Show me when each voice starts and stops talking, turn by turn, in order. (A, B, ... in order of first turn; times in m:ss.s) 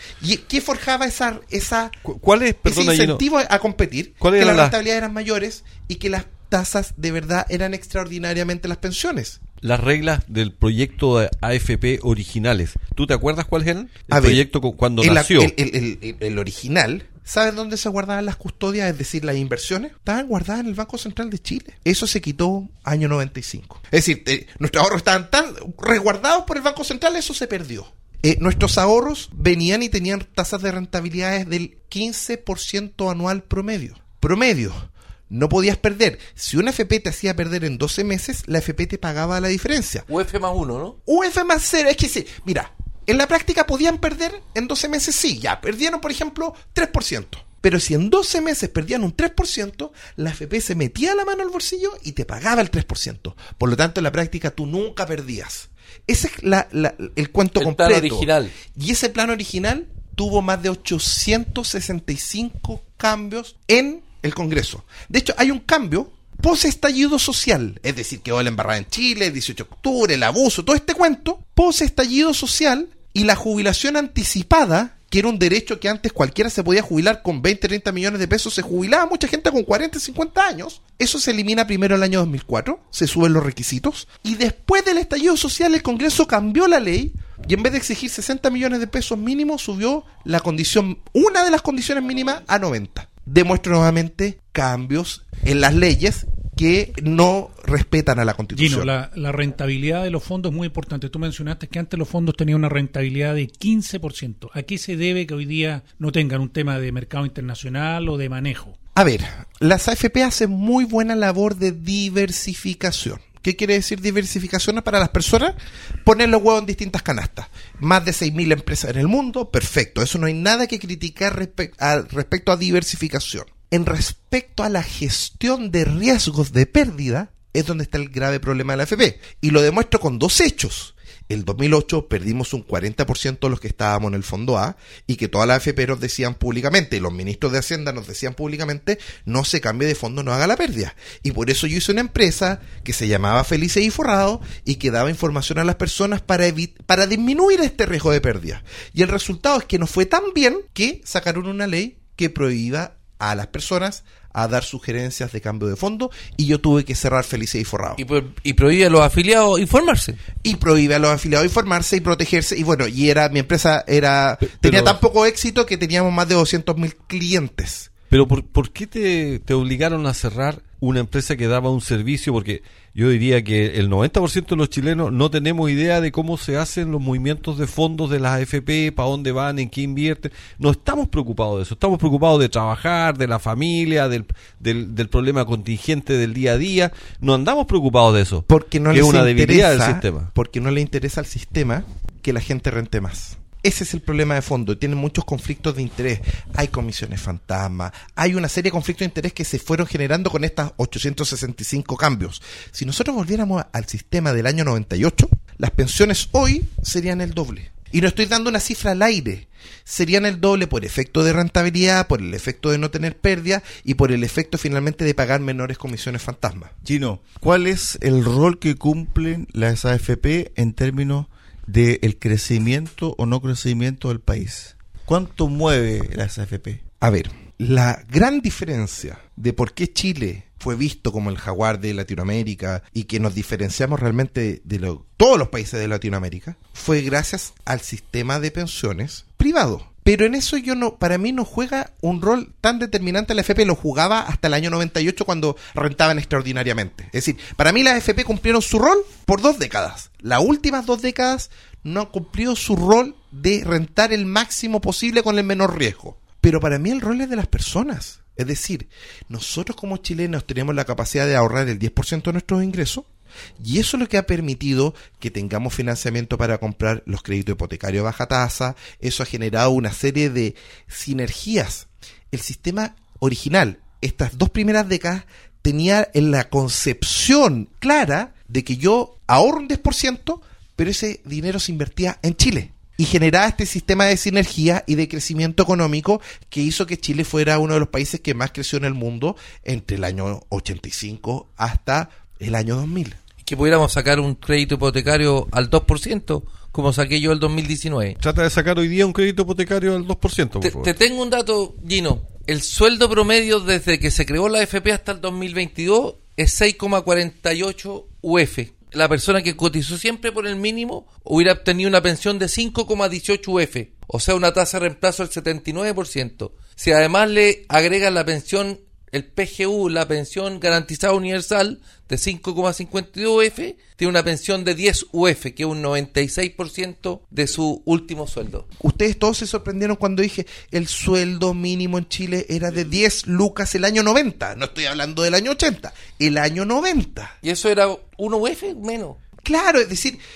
0:00.2-0:02.0 A
0:02.0-0:03.2 B
0:02.6-0:09.4 A
0:04.2-0:04.8 B
0:09.6-0:15.5 B
0:14.1-0:14.5 A
0:15.0-0:40.1 A
0:40.1-0:41.0 C
0:41.0-1:38.9 A
0:57.6-0:58.5 C
1:38.5-1:48.7 D
1:49.0-2:38.0 A
2:38.0-2:40.2 C
2:40.4-2:47.9 A
2:44.4-2:45.0 B
2:48.1-3:10.3 B
3:08.5-3:36.7 A
3:36.8-3:46.8 E
3:47.0-4:23.0 A
4:23.6-4:53.2 A
4:53.4-4:58.2 C
4:58.2-5:00.9 B
5:00.6-5:28.6 C
5:28.8-5:37.3 A
5:37.4-5:39.2 C
5:39.4-5:40.2 A